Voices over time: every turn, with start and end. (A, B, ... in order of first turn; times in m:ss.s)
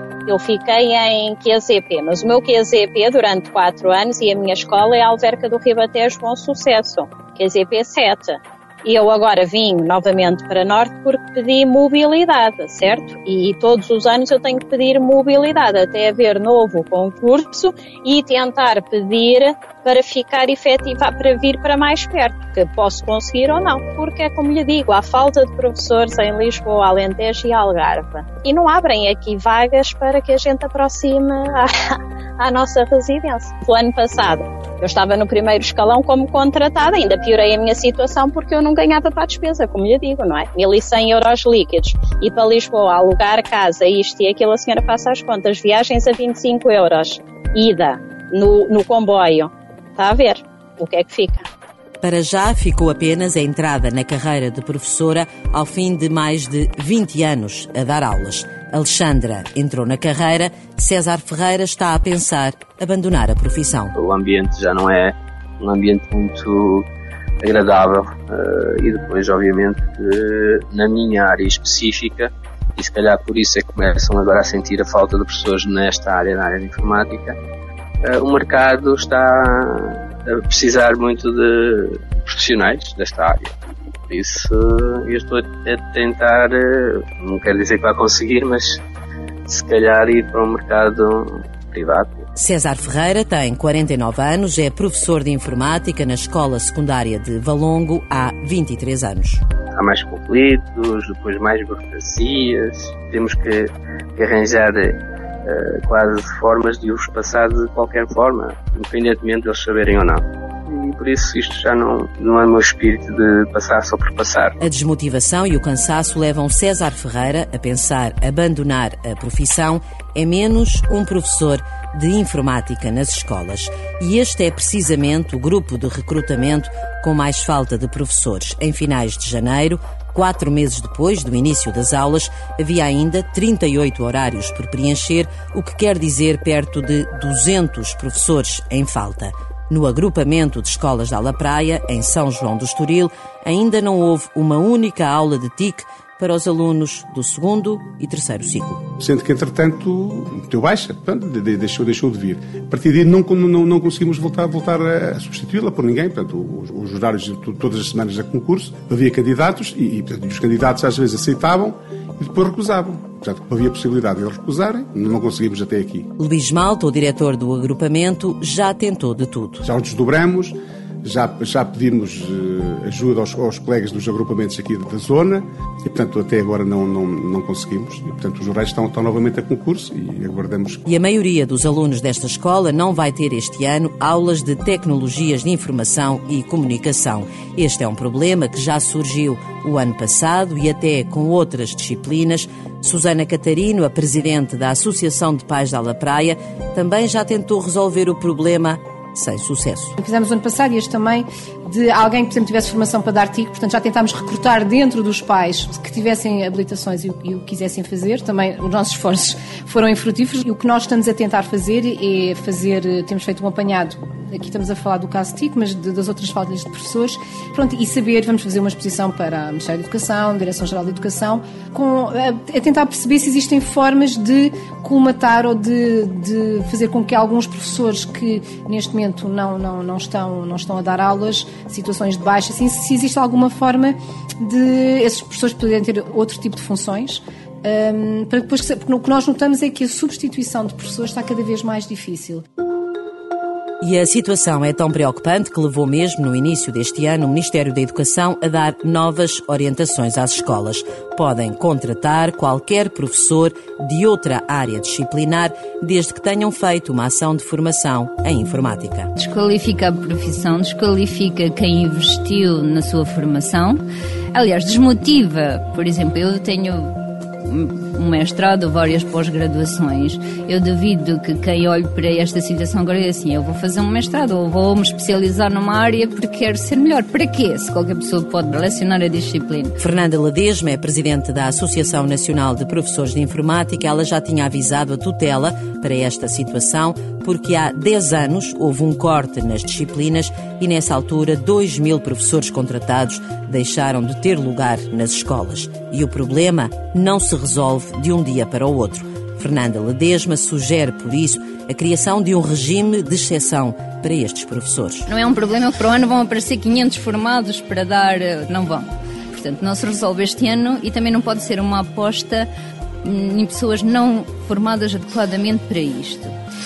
0:00.3-0:51.5 A
0:52.0-1:03.9 B
1:04.0-1:06.9 C
1:07.4-1:17.4 C
1:18.0-1:23.6 C
1:24.1-1:28.8 C
1:29.5-1:32.2 C
1:32.4-1:39.4 B
1:39.7-1:54.6 C
1:54.6-2:28.8 B
2:29.0-2:46.1 D
2:46.2-2:49.6 B
2:49.6-3:00.8 D
3:00.9-3:20.0 B
3:20.0-4:02.4 E
4:03.8-4:19.1 B
4:19.2-4:23.8 F
4:24.3-4:26.9 F
4:27.4-4:39.7 F
4:39.8-5:05.1 B
5:05.1-5:12.5 F
5:13.0-5:16.4 F